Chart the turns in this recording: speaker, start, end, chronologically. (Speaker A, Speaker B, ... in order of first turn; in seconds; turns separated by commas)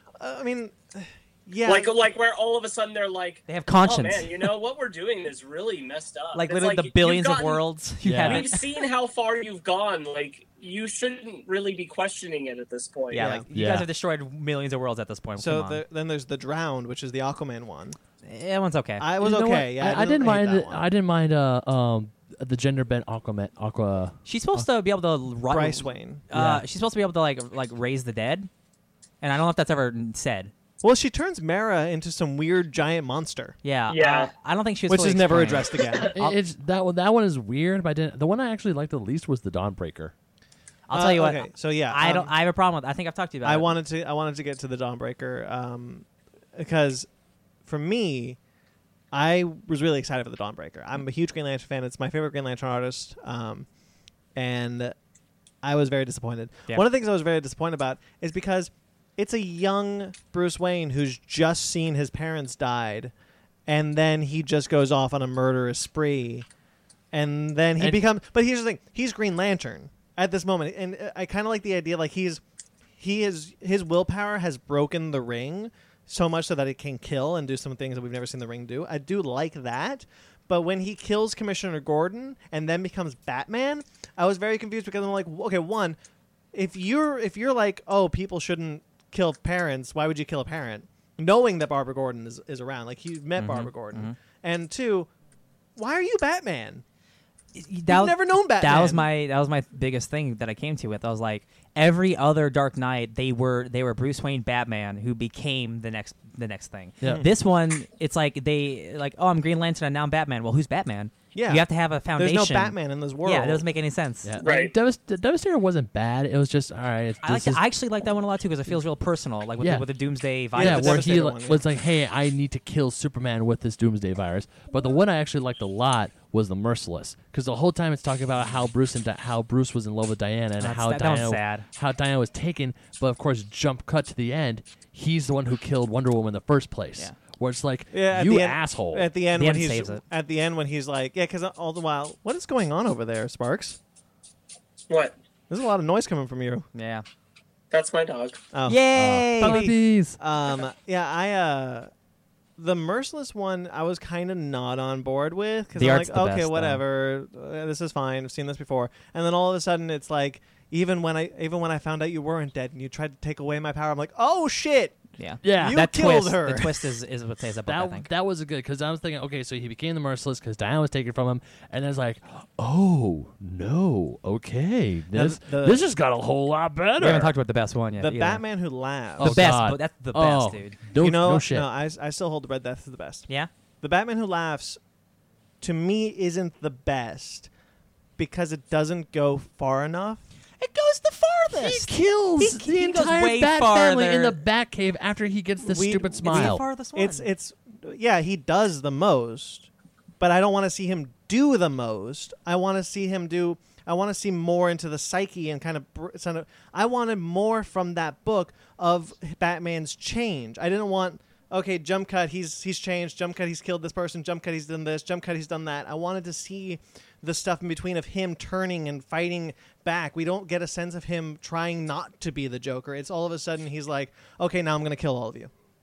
Speaker A: 0.2-1.9, Speaker B: 1.6-7.6, Speaker C: 3.5-4.4, Speaker C: 6.3-8.6, Speaker D: 8.0-8.4, Speaker B: 8.2-13.3, Speaker C: 13.1-15.8, Speaker A: 13.1-13.4, Speaker D: 13.5-13.9, Speaker A: 15.4-18.0, Speaker C: 18.2-19.1, Speaker A: 19.0-20.9, Speaker D: 19.2-24.6, Speaker C: 24.2-28.5, Speaker A: 25.5-26.2, Speaker D: 26.3-26.6, Speaker C: 29.2-30.5, Speaker A: 30.8-33.6, Speaker C: 33.6-36.4, Speaker B: 33.9-34.3, Speaker A: 34.9-36.1, Speaker D: 35.9-40.1, Speaker C: 40.9-43.7, Speaker A: 40.9-42.3, Speaker A: 43.4-47.1, Speaker A: 47.6-48.4, Speaker A: 49.1-53.7, Speaker A: 54.3-54.9, Speaker A: 55.6-63.1, Speaker A: 63.7-66.5, Speaker A: 67.1-72.4, Speaker A: 73.0-86.0, Speaker A: 86.5-95.1, Speaker C: 93.4-94.2, Speaker A: 95.8-96.8, Speaker C: 97.5-114.4, Speaker A: 97.9-99.1, Speaker A: 111.3-113.6, Speaker D: 114.2-117.6, Speaker B: 114.4-114.7, Speaker C: 117.2-121.1, Speaker D: 119.6-119.8, Speaker A: 120.5-121.6, Speaker D: 120.5-139.1, Speaker C: 130.6-131.7, Speaker A: 137.9-143.8, Speaker C: 139.3-140.0, Speaker B: 144.9-145.1, Speaker A: 145.5-146.7, Speaker C: 146.7-147.0, Speaker B: 147.7-148.4, Speaker A: 148.5-148.8, Speaker C: 148.7-149.6, Speaker D: 148.9-150.2, Speaker A: 149.4-151.9, Speaker A: 152.6-166.9, Speaker C: 155.8-156.8, Speaker C: 165.2-168.1, Speaker D: 165.4-165.8, Speaker D: 167.7-177.3, Speaker A: 175.1-175.8, Speaker C: 177.0-178.4, Speaker A: 178.0-179.5, Speaker D: 179.2-181.7, Speaker C: 179.2-180.8, Speaker A: 181.0-183.3, Speaker A: 183.8-184.8, Speaker A: 185.6-187.5, Speaker A: 188.2-190.2, Speaker C: 190.6-194.4, Speaker D: 191.5-196.6, Speaker A: 195.6-199.7, Speaker C: 196.2-197.3, Speaker A: 200.2-225.5